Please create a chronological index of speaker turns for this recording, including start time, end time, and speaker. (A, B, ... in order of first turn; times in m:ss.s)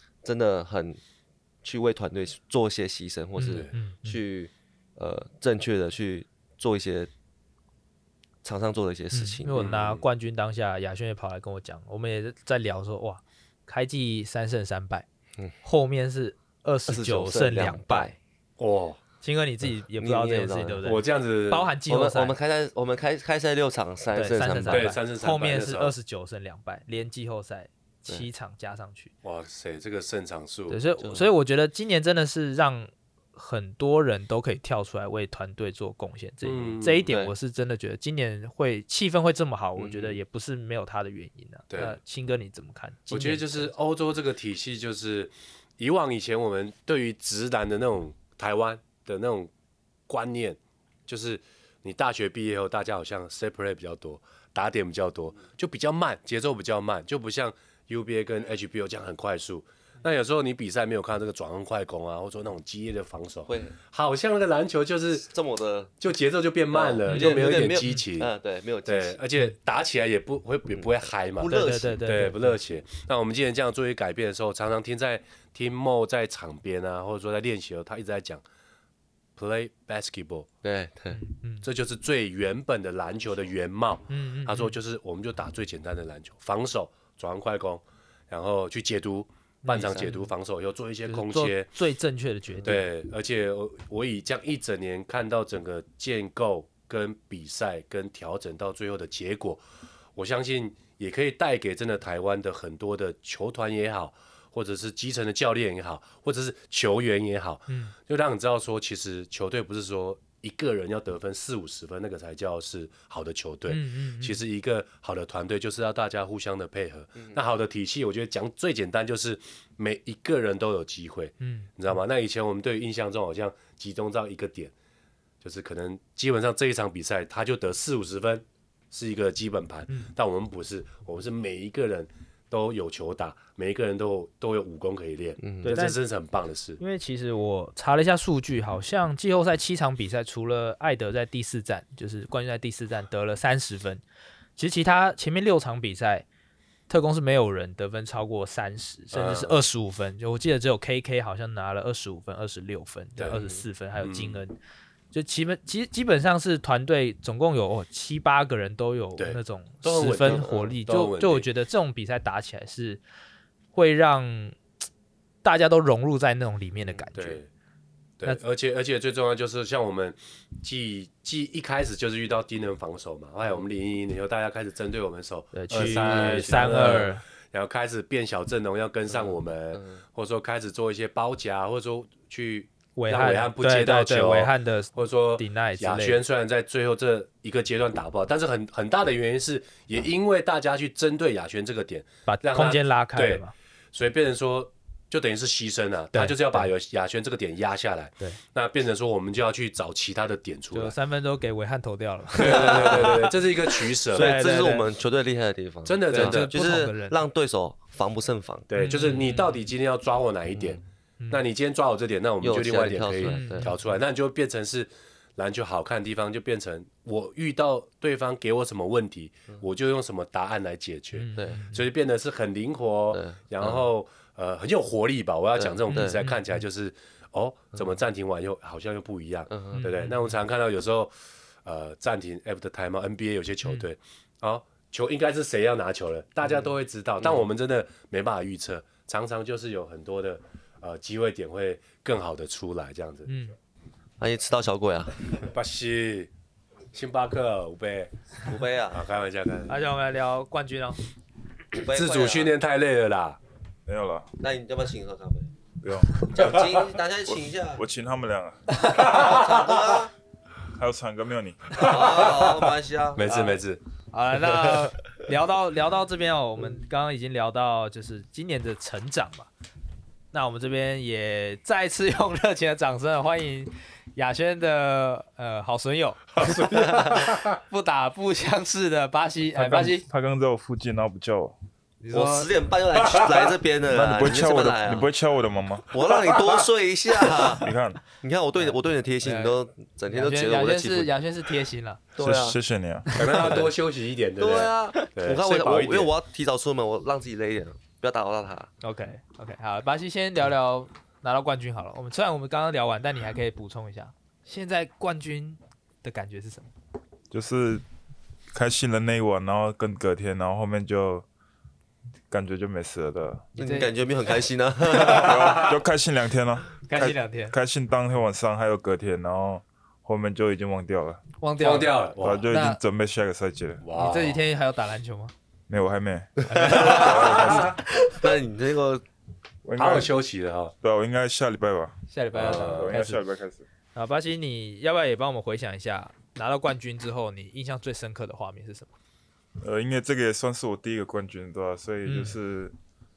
0:00.2-0:01.0 A
0:01.6-0:07.1 A
0:03.4-0:04.2 B
0:08.4-0:09.7 A
0:09.1-0:15.1 B
0:09.5-0:10.0 C
0:15.6-0:18.2 B
0:16.9-0:18.1 A
0:18.6-0:19.0 C
0:19.2-0:22.4 B
0:20.0-0:20.8 A
0:20.8-0:21.7 C
0:21.9-0:24.9 A
0:24.1-0:29.1 B
0:24.7-0:26.0 C
0:29.2-0:30.8 C
0:30.7-0:43.7 B
0:31.0-0:31.3 A
0:36.4-0:37.1 C
0:39.8-0:40.2 C
0:41.7-0:42.0 C
0:43.1-0:49.5 C
0:50.1-1:05.3 C
1:03.5-1:03.8 A
1:05.2-1:05.9 A
1:06.0-1:08.3 C
1:06.7-1:09.2 A
1:07.1-1:08.0 B
1:08.8-1:18.4 C
1:10.8-1:12.0 A
1:11.5-1:12.6 B
1:19.4-1:20.5 C
1:20.6-1:21.2 A
1:21.1-1:21.7 B
1:21.6-1:31.7 C
1:24.1-1:24.8 B
1:29.6-1:30.3 B
1:31.1-1:32.9 B
1:32.6-1:39.6 C
1:40.2-2:04.7 C
1:47.7-1:47.9 B
1:53.7-1:54.4 B
2:01.4-2:01.7 B
2:05.4-2:16.8 C
2:15.4-2:15.8 A
2:15.6-2:16.0 B
2:16.8-2:24.0 B
2:24.6-2:26.3 B
2:26.9-2:34.6 B
2:29.1-2:29.6 C
2:33.2-2:33.4 C
2:33.3-2:33.6 A
2:34.0-2:34.4 C
2:35.1-2:43.0 B
2:39.2-2:41.5 C
2:40.2-2:40.7 A
2:43.7-2:44.6 B
2:45.4-2:47.4 B
2:47.1-2:47.5 C
2:48.2-3:21.0 C
2:55.5-2:57.2 B
2:55.7-2:57.0 A
2:59.1-3:00.0 A
3:03.0-3:06.2 B
3:12.3-3:13.5 B
3:16.1-3:16.7 B
3:20.7-3:23.3 B
3:22.4-3:24.4 C
3:22.4-3:23.3 A
3:24.1-3:28.7 A
3:24.1-3:24.9 B
3:25.8-3:26.5 C
3:26.1-3:27.2 B
3:28.7-3:51.1 C
3:28.8-3:29.6 B
3:31.2-3:31.4 B
3:32.4-3:33.7 A
3:33.3-3:33.9 B
3:41.2-3:41.9 B
3:43.1-3:43.9 A
3:45.6-3:46.2 A
3:45.9-3:46.6 B
3:49.5-3:49.8 A
3:49.7-3:50.4 B
3:51.6-4:03.3 C
4:03.3-4:03.6 B
4:04.2-4:05.3 A
4:05.4-4:06.3 C
4:06.9-4:08.1 C
4:08.5-4:09.0 A
4:08.9-4:09.8 C
4:09.7-4:11.0 B
4:11.7-4:12.5 A
4:11.8-4:13.4 C
4:13.9-4:14.3 D
4:14.4-4:15.5 A
4:15.8-4:16.2 D
4:16.3-4:17.8 A
4:16.4-4:16.7 C
4:17.3-4:18.6 D
4:19.0-4:20.1 A
4:19.0-4:19.5 C
4:20.7-4:21.9 D
4:21.8-4:23.6 A
4:21.9-4:23.8 C
4:24.1-4:29.5 B
4:30.3-4:40.1 B
4:36.4-4:37.5 C
4:36.7-4:37.3 A
4:39.6-4:41.6 D
4:42.0-4:42.5 B
4:42.1-4:45.1 A
4:43.0-4:43.5 C
4:43.9-4:45.9 D
4:45.9-4:51.1 A
4:46.2-4:46.5 C
4:47.5-4:48.0 D
4:48.6-4:49.6 B
4:50.1-4:52.0 B
4:52.2-4:52.6 A
4:52.2-4:53.1 D
4:53.1-4:53.7 B
4:53.2-4:56.1 C
4:54.4-4:58.7 A
4:58.8-5:06.7 B
5:07.3-5:07.8 D
5:08.5-5:11.2 D
5:12.3-5:13.5 D
5:13.6-5:14.0 B
5:13.6-5:15.7 A
5:15.0-5:21.2 D
5:16.8-5:17.6 B
5:21.4-5:22.8 B
5:21.6-5:22.5 C
5:22.2-5:23.9 D
5:23.8-5:24.4 C
5:23.9-5:25.3 B
5:25.7-5:27.6 D
5:26.5-5:28.2 B
5:26.5-5:29.0 A
5:27.2-5:27.7 C
5:29.6-5:30.1 D
5:29.8-5:30.7 C
5:30.8-5:33.7 D
5:32.1-5:33.2 B
5:32.3-5:33.0 C
5:34.0-5:38.9 B
5:39.6-5:42.8 D
5:42.0-5:42.4 B